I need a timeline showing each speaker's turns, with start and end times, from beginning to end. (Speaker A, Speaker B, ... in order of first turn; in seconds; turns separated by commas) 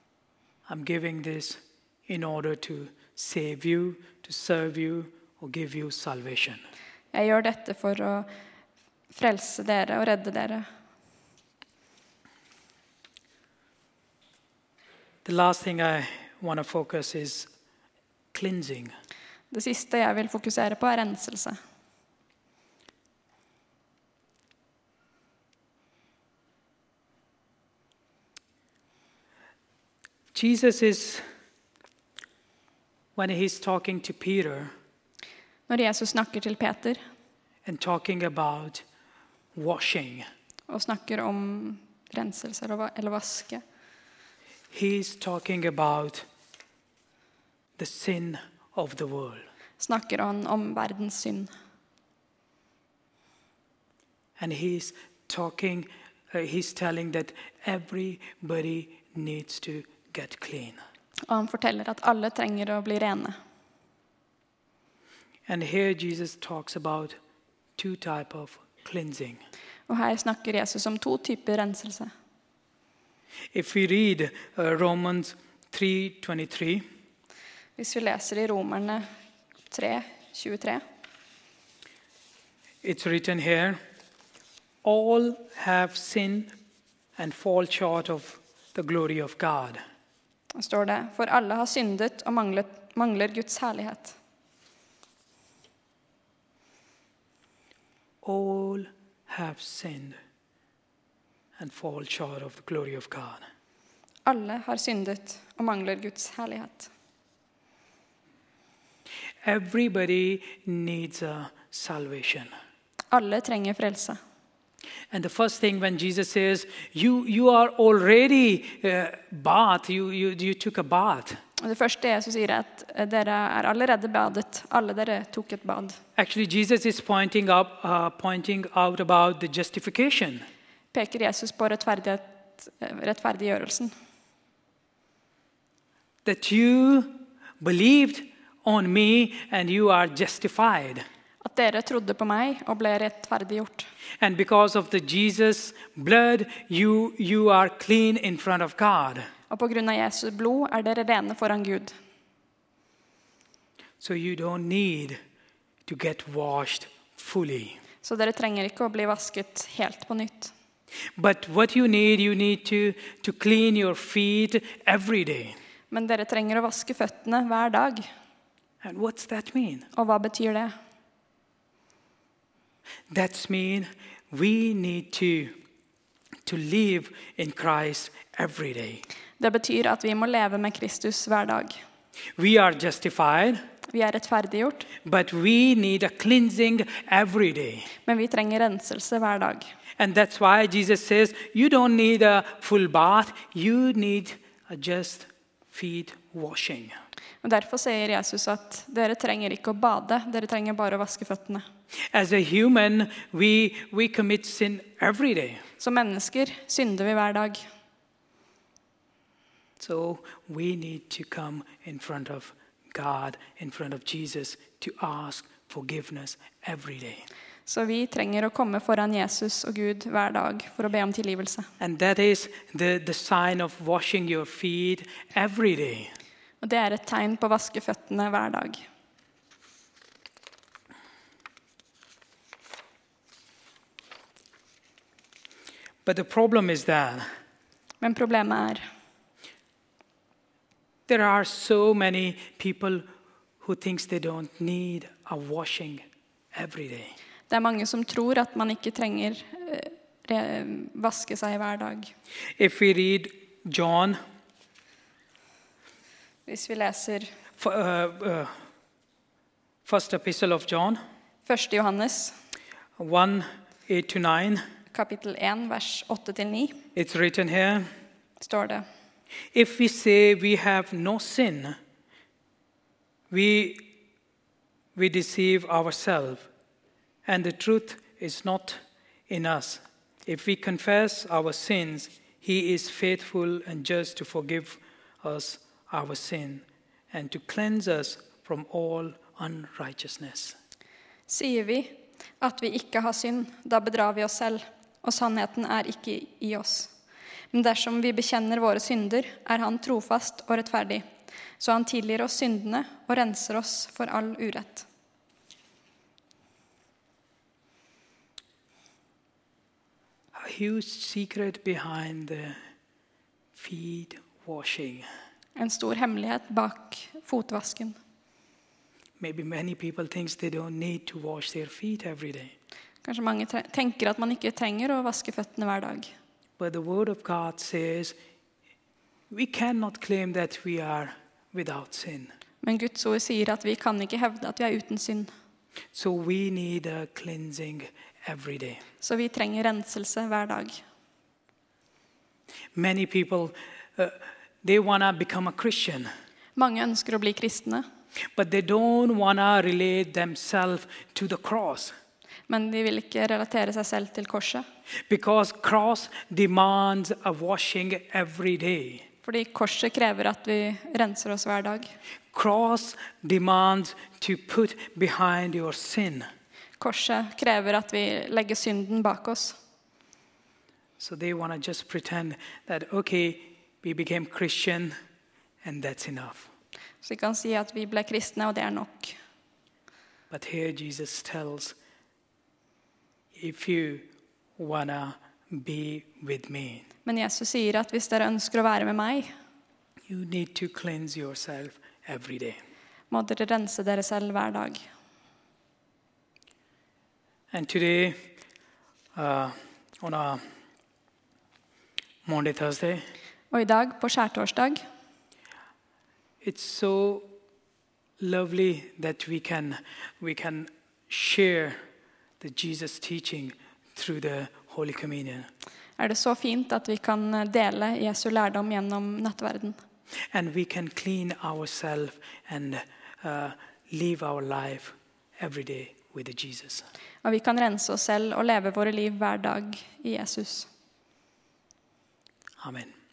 Speaker A: 0.7-6.6, Speaker B: 7.1-8.3, Speaker B: 9.1-10.7, Speaker A: 15.2-17.5, Speaker A: 18.3-18.9, Speaker B: 19.5-21.6, Speaker A: 30.3-31.2, Speaker A: 33.1-34.7, Speaker B: 35.7-37.0, Speaker A: 37.6-38.8, Speaker A: 39.5-40.3, Speaker B: 40.7-43.6, Speaker A: 44.7-46.2, Speaker A: 47.8-49.5, Speaker B: 49.8-51.5, Speaker A: 54.4-60.8, Speaker B: 61.3-63.4, Speaker A: 65.5-67.2, Speaker A: 67.8-69.4, Speaker B: 69.9-72.1, Speaker A: 73.5-76.8, Speaker B: 77.8-79.1, Speaker B: 79.7-80.8, Speaker A: 82.8-83.8, Speaker A: 84.8-86.5, Speaker A: 87.2-89.8, Speaker B: 90.5-94.2, Speaker A: 98.2-100.2, Speaker A: 101.6-103.4, Speaker B: 104.2-106.9, Speaker A: 109.4-112.5, Speaker B: 113.1-114.2, Speaker A: 115.1-121.4, Speaker B: 121.6-126.0, Speaker A: 126.2-130.4, Speaker B: 130.9-133.9, Speaker A: 136.2-141.1, Speaker B: 141.4-143.9, Speaker A: 144.2-149.3, Speaker B: 149.5-151.9, Speaker A: 154.0-155.2, Speaker A: 155.8-157.8, Speaker B: 158.0-160.5, Speaker A: 161.2-165.6, Speaker B: 165.9-168.1, Speaker A: 168.8-169.9, Speaker B: 169.9-170.7, Speaker A: 173.1-175.6, Speaker A: 176.4-179.0, Speaker B: 179.4-181.8, Speaker A: 182.3-183.6, Speaker B: 183.9-184.9, Speaker A: 185.0-187.9, Speaker B: 188.0-189.7, Speaker A: 190.0-197.0, Speaker B: 197.4-201.6, Speaker A: 202.1-205.6, Speaker B: 205.8-207.7, Speaker A: 209.8-217.3, Speaker B: 217.7-221.7, Speaker A: 221.8-226.1, Speaker B: 226.6-228.8, Speaker A: 236.0-237.3, Speaker B: 238.0-238.8, Speaker A: 241.1-243.1, Speaker A: 243.6-247.2, Speaker B: 247.5-252.1, Speaker A: 252.6-254.2, Speaker B: 256.4-257.3, Speaker A: 257.6-258.5, Speaker A: 259.8-261.0, Speaker B: 261.5-262.3, Speaker A: 263.0-264.6, Speaker B: 264.9-266.8, Speaker A: 266.9-267.9, Speaker B: 268.4-268.9, Speaker A: 269.5-271.8, Speaker A: 273.3-273.9, Speaker A: 274.9-276.5, Speaker A: 277.2-290.6, Speaker B: 291.3-296.9, Speaker B: 297.5-301.0, Speaker B: 301.6-304.9, Speaker A: 310.3-312.6, Speaker A: 313.5-315.1, Speaker B: 315.6-318.0, Speaker A: 319.2-322.5, Speaker B: 323.0-326.1, Speaker A: 326.6-328.1, Speaker A: 329.3-332.3, Speaker B: 332.6-335.3, Speaker A: 335.9-338.8, Speaker B: 339.0-340.8, Speaker A: 342.7-346.1, Speaker B: 346.6-347.8, Speaker A: 348.3-351.9, Speaker B: 352.5-354.6, Speaker A: 355.1-359.1, Speaker B: 359.2-361.9, Speaker A: 362.3-366.3, Speaker B: 366.8-369.6, Speaker A: 371.0-374.9, Speaker A: 375.6-376.5, Speaker B: 377.0-379.1, Speaker A: 380.3-381.8, Speaker A: 383.3-386.9, Speaker B: 387.1-389.3, Speaker A: 390.1-392.6, Speaker B: 393.1-394.9, Speaker A: 397.5-398.3, Speaker A: 399.1-400.4, Speaker A: 402.2-403.1, Speaker B: 403.5-404.8, Speaker A: 406.4-407.3, Speaker A: 408.2-411.8, Speaker A: 412.4-415.5, Speaker B: 416.0-419.8, Speaker A: 420.3-426.9, Speaker B: 427.2-430.7, Speaker A: 432.6-432.9